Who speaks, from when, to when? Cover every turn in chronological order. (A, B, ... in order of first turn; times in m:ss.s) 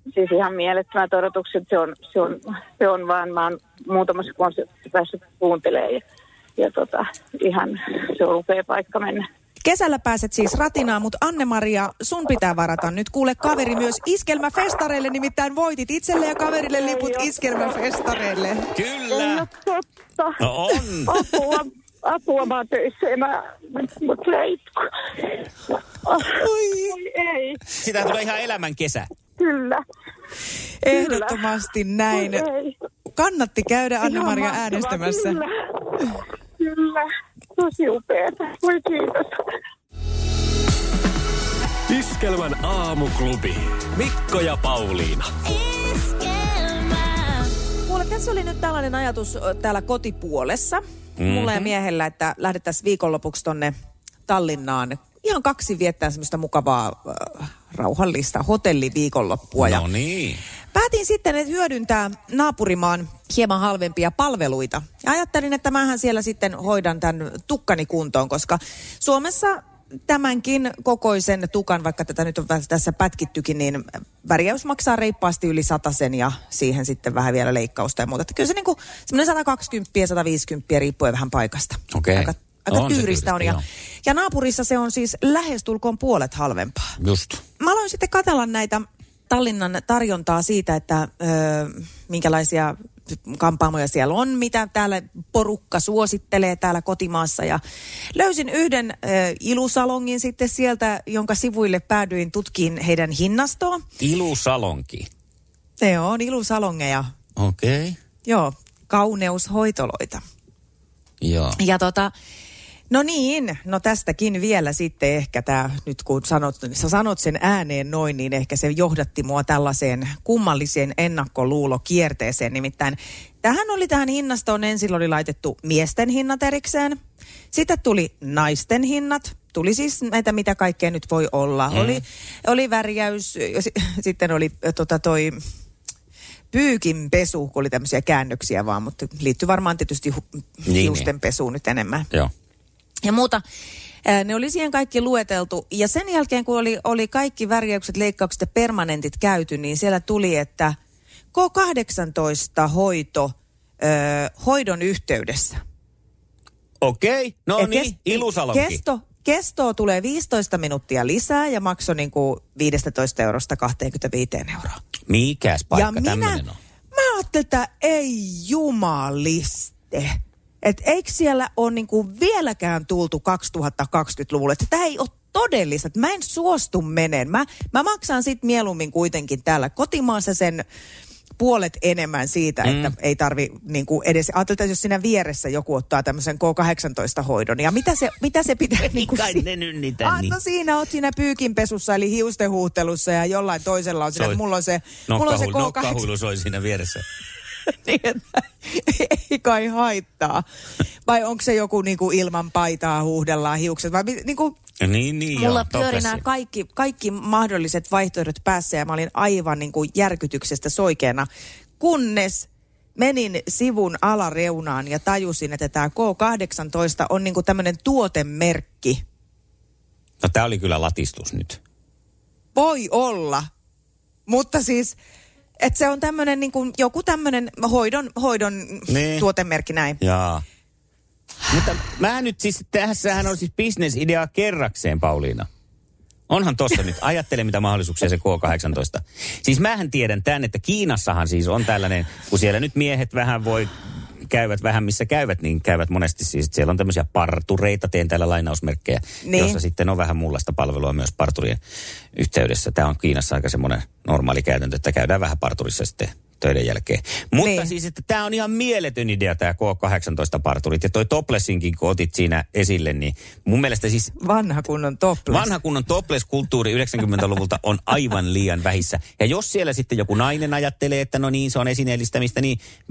0:00.1-0:06.0 A
0:06.6-0:09.2 A
0:09.6-0:18.7 B
0:16.7-0:17.6 A
0:18.7-0:19.4 C
0:19.1-0:20.4 A
0:20.4-0:21.2 C
0:21.0-0:24.9 A
0:26.0-0:27.6 A
0:26.3-0:26.9 B
0:27.8-0:29.1 C
0:29.4-0:29.8 A
0:30.8-0:32.4 B
0:30.9-0:31.5 A
0:32.1-0:32.7 A
0:33.1-0:35.4 B
0:34.0-0:35.5 A
0:36.6-0:37.0 A
0:37.6-0:39.3 A
0:41.9-0:45.3 D
0:47.9-0:53.7 B
0:51.2-0:51.7 C
0:54.3-0:59.8 B
0:59.6-1:00.4 C
1:00.7-1:26.9 B
1:21.9-1:23.6 C
1:27.0-1:27.4 C
1:27.6-1:32.7 B
1:33.3-1:37.6 B
1:38.1-1:43.8 B
1:44.0-1:45.1 C
1:45.8-1:47.1 B
1:47.4-1:48.0 C
1:48.2-1:50.2 B
1:51.2-1:51.6 C
1:51.6-1:52.1 B
1:52.9-2:07.0 B
2:07.5-2:15.4 B
2:11.7-2:12.0 C
2:16.5-2:22.1 B
2:20.7-2:21.1 C
2:23.0-2:23.4 B
2:24.0-2:30.7 B
2:31.3-2:35.6 B
2:36.8-2:38.8 C
2:37.6-2:44.8 B
2:45.1-2:46.6 C
2:45.7-2:46.4 B
2:46.9-3:00.6 B
3:01.4-3:09.4 B
3:02.6-3:02.9 C
3:08.8-3:10.4 C
3:10.0-3:16.0 B
3:14.1-3:14.4 C
3:15.1-3:17.0 C
3:17.8-3:20.4 B
3:21.0-3:24.6 B
3:24.8-3:26.2 C
3:25.3-3:31.2 B
3:31.8-3:39.0 B
3:40.2-3:41.6 C
3:42.5-3:43.5 B
3:44.3-3:45.0 B
3:45.6-3:50.0 B
3:48.9-3:49.2 C
3:50.0-3:50.4 C
3:51.5-3:55.5 C
3:56.3-4:03.7 C
4:04.3-4:11.6 C
4:09.2-4:09.6 B
4:12.1-4:24.1 C
4:17.4-4:17.7 B
4:24.2-4:25.5 B
4:25.3-4:32.6 C